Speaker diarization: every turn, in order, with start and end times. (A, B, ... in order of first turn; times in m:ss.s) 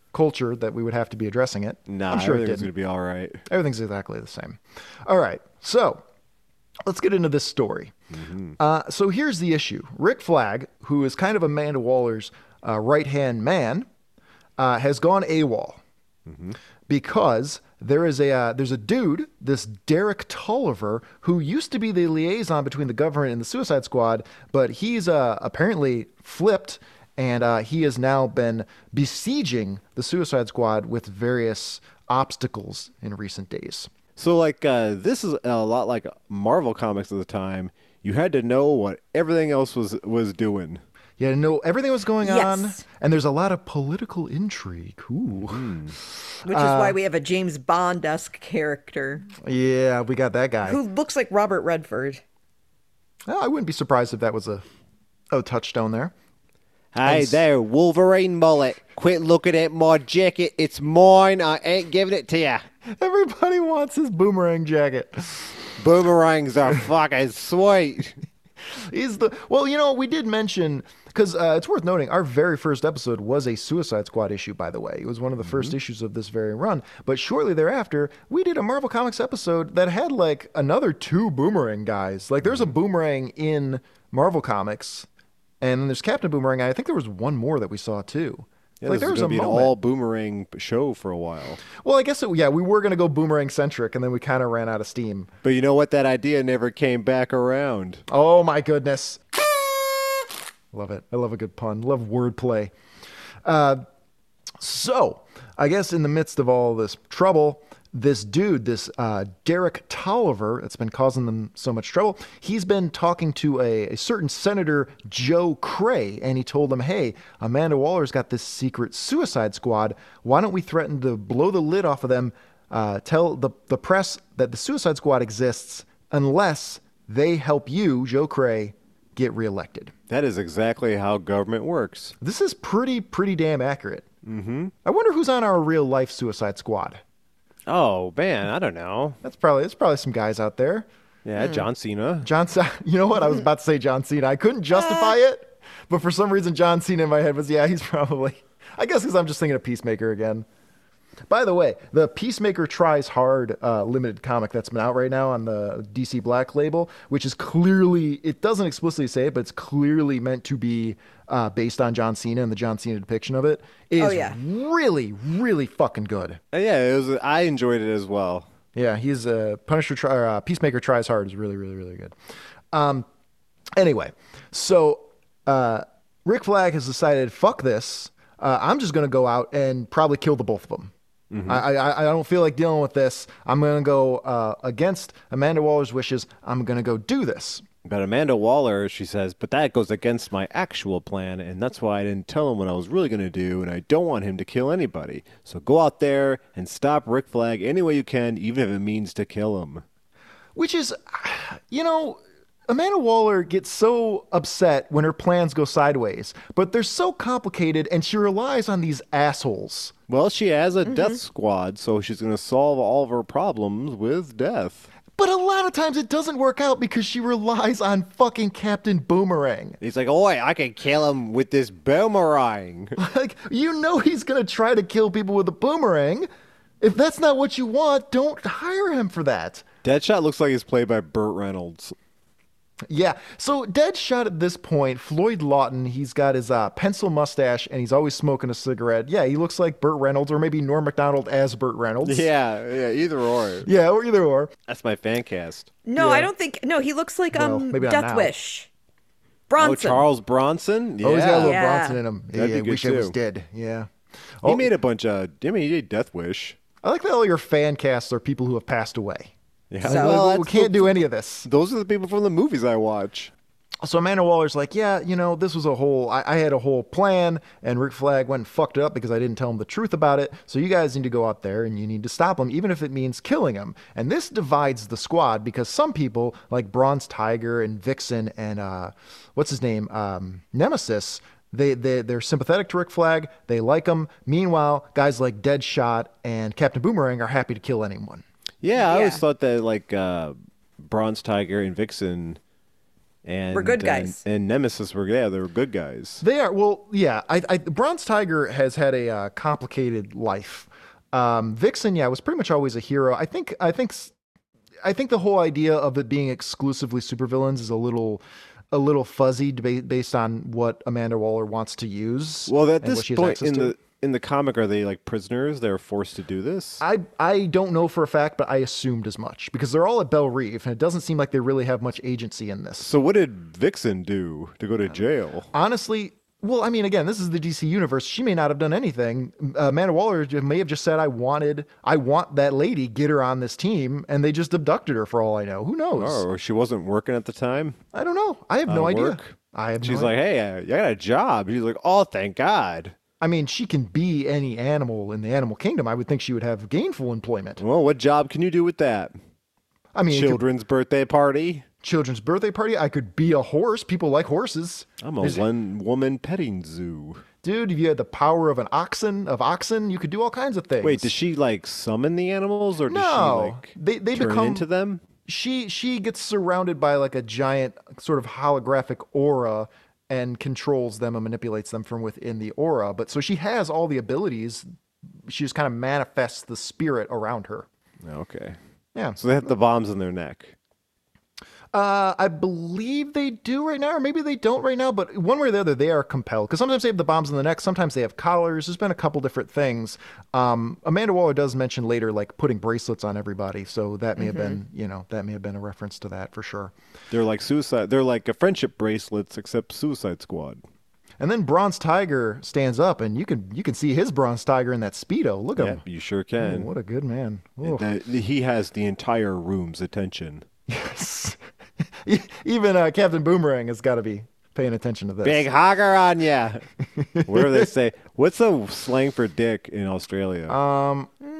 0:00.1-0:02.7 A
0:01.9-0:03.4 B
0:03.5-0:06.0 A
0:06.8-0:07.9 A
0:08.1-0:08.6 B
0:08.6-0:13.9 A
0:14.6-0:15.8 A
0:16.2-0:16.6 B
0:16.9-0:33.9 A
0:34.2-0:40.8 B
0:41.2-0:47.0 A
0:42.2-0:42.8 C
0:45.4-0:46.0 B
0:46.4-0:49.3 C
0:49.4-0:50.8 A
0:50.6-0:52.2 C
0:53.3-0:54.6 A
0:55.3-0:56.1 A
0:56.9-1:02.6 B
0:57.0-0:57.4 A
1:02.9-1:05.6 A
1:05.8-1:08.2 B
1:08.7-1:25.1 A
1:15.5-1:15.7 B
1:25.6-1:29.7 A
1:28.8-1:31.6 B
1:31.8-1:35.3 A
1:35.4-1:38.0 B
1:38.1-1:42.7 A
1:43.4-1:43.8 A
1:44.6-2:09.9 A
2:10.1-2:12.1 B
2:12.2-2:14.0 A
2:14.2-2:14.7 B
2:14.8-2:17.0 A
2:17.7-2:19.2 B
2:19.2-2:20.9 A
2:21.2-2:22.3 B
2:22.2-2:30.4 A
2:24.7-2:25.1 C
2:31.3-2:46.4 A
2:44.0-2:44.4 C
2:46.5-2:48.5 B
2:48.7-2:52.1 A
2:52.7-2:53.0 A
2:53.8-3:00.9 A
3:01.3-3:01.6 B
3:01.4-3:07.6 A
3:07.8-3:19.8 B
3:20.6-3:29.9 A
3:30.1-3:34.9 B
3:30.8-3:31.2 C
3:35.2-3:39.8 A
3:39.8-3:43.0 B
3:43.0-3:46.3 A
3:46.8-3:49.6 A
3:49.8-3:51.9 B
3:52.9-4:02.3 A
4:02.0-4:03.7 B
4:03.6-4:04.5 A
4:04.7-4:05.7 B
4:05.8-4:08.7 C
4:06.0-4:06.3 A
4:07.3-4:08.3 A
4:09.5-4:10.0 C
4:09.6-4:11.6 B
4:11.0-4:13.9 A
4:11.4-4:12.0 C
4:12.3-4:13.2 B
4:14.4-4:14.7 A
4:14.4-4:16.6 B
4:16.8-4:21.5 A
4:19.7-4:23.3 B
4:19.8-4:20.2 C
4:23.8-4:48.2 A
4:48.6-4:52.4 B
4:48.8-4:49.2 C
4:53.2-4:56.2 B
4:53.5-4:54.2 C
4:56.2-5:04.1 A
5:04.8-5:13.7 A
5:12.5-5:16.8 B
5:16.8-5:22.9 A
5:22.8-5:25.5 B
5:25.5-5:36.2 A
5:36.0-5:37.8 B
5:37.9-5:40.1 A
5:38.6-5:42.9 B
5:43.2-5:47.6 A
5:47.6-5:49.1 B
5:49.9-5:50.4 A
5:50.1-5:51.6 B
5:51.8-5:55.4 A
5:55.0-5:57.2 B
5:57.4-6:01.1 A
6:00.8-6:05.0 B
6:02.8-6:04.6 A
6:05.2-6:14.6 A
6:15.2-6:17.7 A
6:18.0-6:18.6 B
6:19.2-6:20.5 B
6:21.7-6:36.7 A
6:34.2-6:34.6 C
6:37.1-6:40.6 B
6:41.2-6:45.8 A
6:45.6-6:46.7 B
6:46.4-6:47.9 A
6:47.6-6:50.4 B
6:50.7-6:51.4 A
6:52.0-6:55.4 A
6:55.2-6:56.6 B
6:56.9-6:57.7 A
6:57.2-7:00.6 B
7:00.5-7:01.1 A